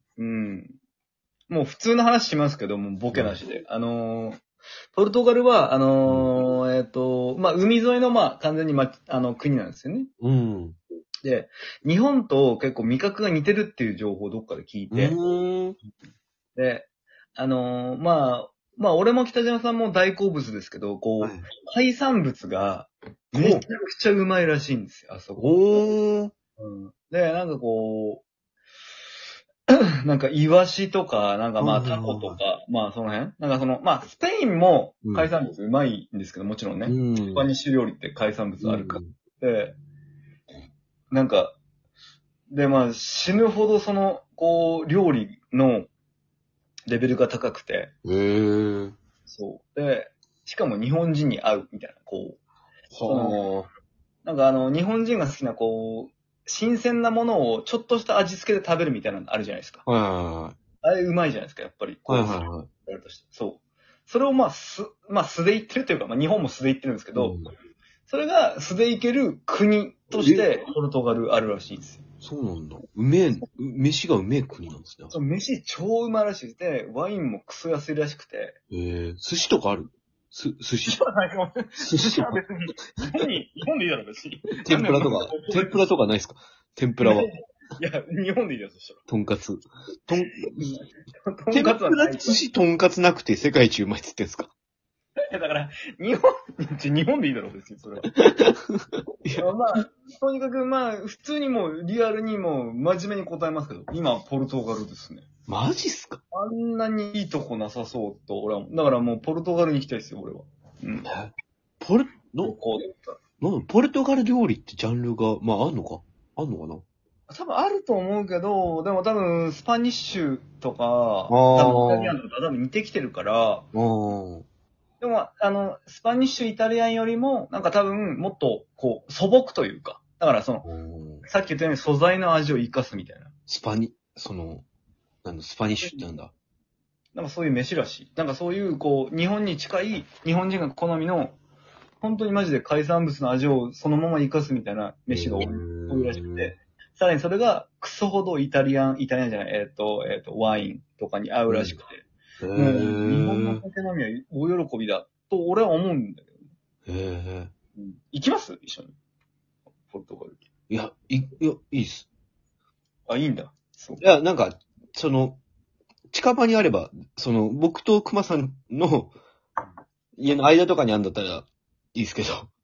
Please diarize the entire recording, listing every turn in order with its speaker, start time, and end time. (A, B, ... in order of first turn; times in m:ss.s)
0:00.2-0:00.7 A
0:01.5-0:04.4 A
0:03.1-0:03.4 B
0:04.9-0:10.1 A
0:06.1-0:06.3 B
0:10.2-0:10.8 B
0:11.2-0:15.2 A
0:14.9-0:15.8 B
0:16.6-0:25.8 A
0:21.2-0:21.5 B
0:23.3-0:23.6 B
0:25.4-0:26.3 B
0:26.6-0:28.2 A
0:29.7-0:39.8 A
0:31.6-0:32.4 B
0:35.0-0:35.3 B
0:36.9-0:37.5 B
0:38.6-0:39.2 B
0:41.1-0:41.6 A
0:42.5-0:45.9 A
0:46.9-0:47.9 A
0:48.0-0:49.0 B
0:49.3-0:52.4 A
0:52.9-0:53.7 B
0:53.0-0:53.4 A
0:54.2-0:59.8 A
0:59.8-1:00.6 B
1:00.8-1:07.4 A
1:02.1-1:02.7 B
1:07.2-1:07.5 B
1:08.1-1:12.0 A
1:10.2-1:10.5 B
1:12.2-1:15.1 B
1:15.1-1:18.6 A
1:18.7-1:21.0 B
1:20.8-1:25.8 A
1:21.9-1:22.1 B
1:24.6-1:27.3 B
1:27.0-1:29.0 A
1:29.1-1:30.5 B
1:30.5-1:32.4 A
1:31.5-1:34.5 B
1:35.3-1:38.1 A
1:38.2-1:39.5 B
1:39.4-1:45.2 A
1:45.5-1:46.2 B
1:46.3-1:51.1 A
1:51.1-1:52.6 B
1:52.4-1:53.2 A
1:53.4-1:56.8 B
1:57.3-2:03.7 A
2:01.3-2:02.2 B
2:03.7-2:04.5 B
2:05.0-2:10.7 A
2:10.6-2:11.2 B
2:11.3-2:13.3 A
2:13.5-2:14.6 B
2:15.2-2:16.3 B
2:17.1-2:21.4 A
2:22.0-2:32.0 A
2:25.1-2:26.5 B
2:31.5-2:31.8 B
2:32.4-2:33.6 B
2:32.5-2:36.4 A
2:36.9-2:37.5 B
2:37.8-2:38.9 A
2:39.9-2:40.4 A
2:40.7-2:42.1 B
2:43.1-2:44.0 A
2:44.0-2:45.4 B
2:46.1-2:49.2 B
2:50.2-2:52.5 B